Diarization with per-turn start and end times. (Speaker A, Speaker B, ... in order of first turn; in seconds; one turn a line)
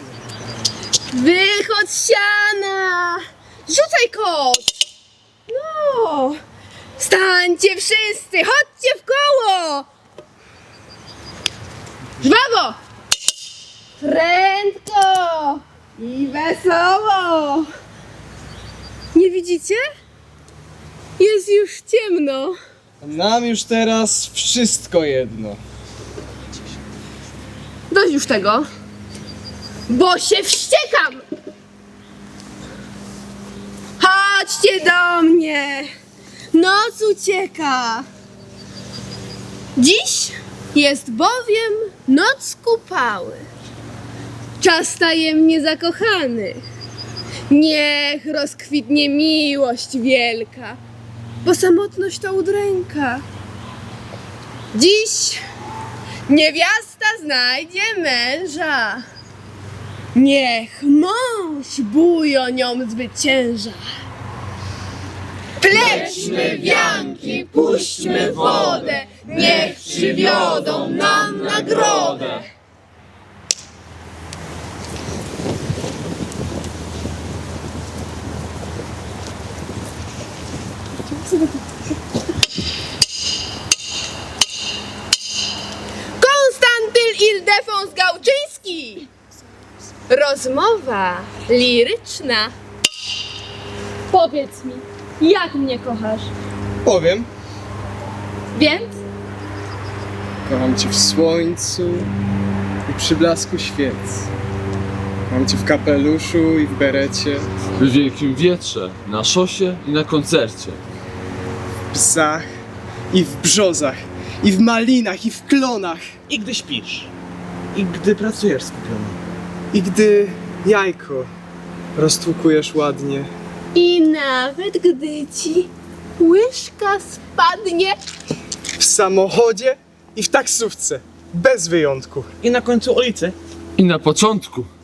Speaker A: 1.1-4.8
Speaker A: 5.5-6.4
Speaker A: 7.0-9.9
Speaker A: 12.2-12.8
Speaker A: 14.0-17.7
Speaker A: 19.1-19.9
Speaker A: 21.2-22.6
Speaker B: 23.0-25.6
Speaker A: 27.9-28.7
Speaker A: 29.9-31.2
Speaker A: 34.0-35.9
Speaker A: 36.5-38.1
Speaker A: 39.8-43.5
Speaker A: 44.6-46.6
Speaker A: 47.5-50.8
Speaker A: 51.4-53.2
Speaker A: 54.7-55.4
Speaker A: 56.3-59.0
Speaker A: 60.1-63.9
Speaker A: 65.6-72.5
Speaker A: 86.2-89.1
Speaker A: 90.1-92.5
Speaker C: 94.1-96.3
Speaker B: 96.8-97.3
Speaker A: 98.6-99.0
Speaker B: 100.5-102.1
Speaker B: 102.9-104.3
Speaker B: 105.3-107.5
Speaker D: 107.8-110.8
Speaker B: 111.9-112.5
Speaker B: 113.1-116.1
Speaker E: 116.3-117.1
Speaker E: 117.7-119.2
Speaker B: 119.7-121.3
Speaker B: 122.0-123.3
Speaker A: 123.8-128.0
Speaker B: 128.8-132.3
Speaker E: 132.4-133.3
Speaker D: 133.8-134.7